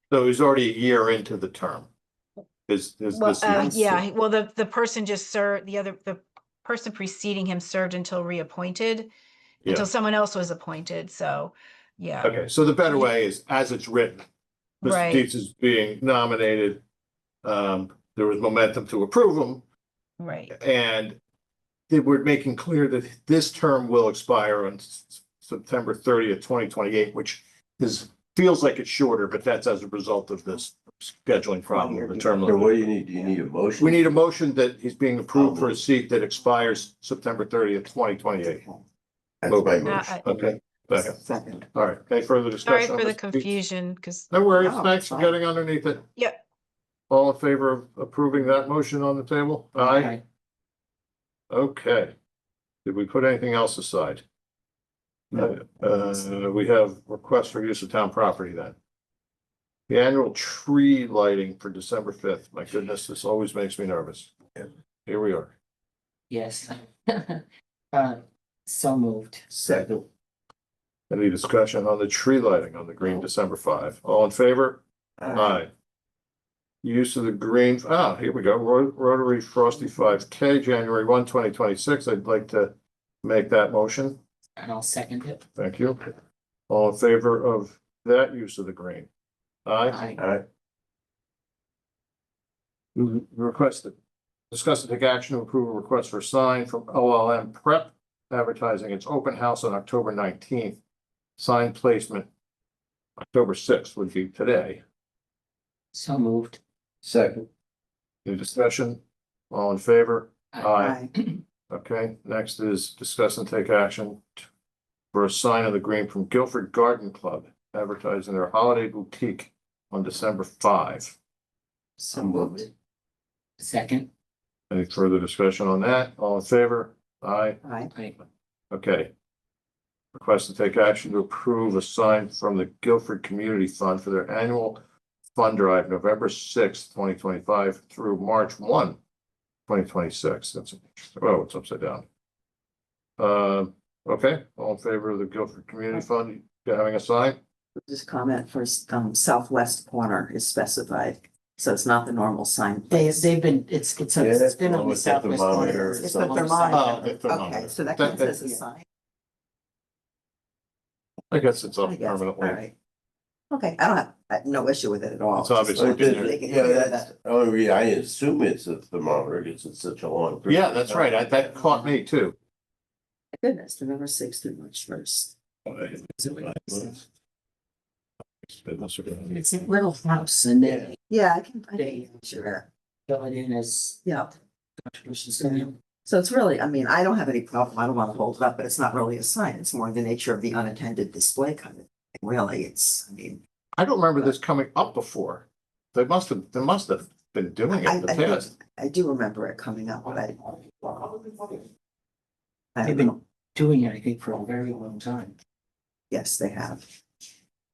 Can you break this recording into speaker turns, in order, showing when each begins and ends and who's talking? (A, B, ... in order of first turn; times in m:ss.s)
0:00.1-0:01.9 A
0:02.7-0:04.0 A
0:03.1-0:09.1 B
0:09.6-0:13.1 B
0:12.2-0:14.2 A
0:14.8-0:16.8 A
0:14.8-0:15.2 B
0:17.4-0:19.6 A
0:20.2-0:20.5 B
0:20.5-0:21.2 A
0:21.9-0:32.8 A
0:31.7-0:33.4 C
0:32.4-0:34.1 D
0:33.8-0:38.6 A
0:35.3-0:35.8 D
0:38.4-0:38.8 C
0:39.5-0:40.2 D
0:39.5-0:41.2 A
0:39.8-0:40.2 B
0:41.0-0:41.7 C
0:41.7-0:43.4 A
0:42.6-0:44.3 B
0:44.3-0:46.0 A
0:44.6-0:45.4 C
0:47.1-0:50.2 A
0:49.8-0:50.2 E
0:51.5-0:52.1 A
0:52.8-0:54.2 A
0:55.3-0:58.7 A
0:59.9-1:04.3 A
1:05.0-1:05.5 A
1:06.3-1:09.4 E
1:09.5-1:10.0 D
1:11.1-1:15.7 A
1:15.2-1:15.6 D
1:16.8-1:24.2 A
1:24.6-1:25.4 E
1:25.6-1:26.1 A
1:26.7-1:29.1 A
1:29.6-1:30.0 A
1:29.9-1:30.2 E
1:30.2-1:30.4 D
1:32.9-1:33.9 A
1:34.5-1:40.8 A
1:41.4-1:42.3 A
1:43.2-1:44.8 A
1:45.9-1:46.6 E
1:47.0-1:47.5 D
1:48.2-1:51.0 A
1:50.5-1:51.4 E
1:50.8-1:51.1 C
1:51.7-1:54.4 A
1:55.1-2:01.1 A
2:02.1-2:02.7 D
2:02.2-2:02.5 C
2:02.2-2:02.6 E
2:03.6-2:04.1 E
2:04.7-2:07.6 A
2:07.6-2:07.9 C
2:08.7-2:09.1 A
2:10.1-2:14.8 A
2:15.3-2:19.0 A
2:19.7-2:22.0 A
2:23.2-2:27.4 A
2:27.8-2:33.3 C
2:32.9-2:37.1 E
2:34.2-2:36.4 D
2:35.5-2:38.8 C
2:36.7-2:38.4 A
2:41.3-2:42.6 A
2:41.8-2:42.7 C
2:43.5-2:47.1 C
2:45.4-2:46.3 A
2:45.8-2:51.6 D
2:50.5-2:52.3 A
2:53.4-2:55.3 C
2:56.1-2:56.9 E
2:58.4-2:59.3 A
2:59.2-3:01.0 E
3:01.1-3:02.6 C
3:01.8-3:02.1 E
3:03.1-3:04.1 E
3:04.0-3:04.3 C
3:04.8-3:05.7 E
3:05.4-3:13.4 C
3:13.8-3:18.5 A
3:17.7-3:21.6 C
3:22.7-3:23.2 C
3:22.8-3:25.3 E
3:26.1-3:26.9 C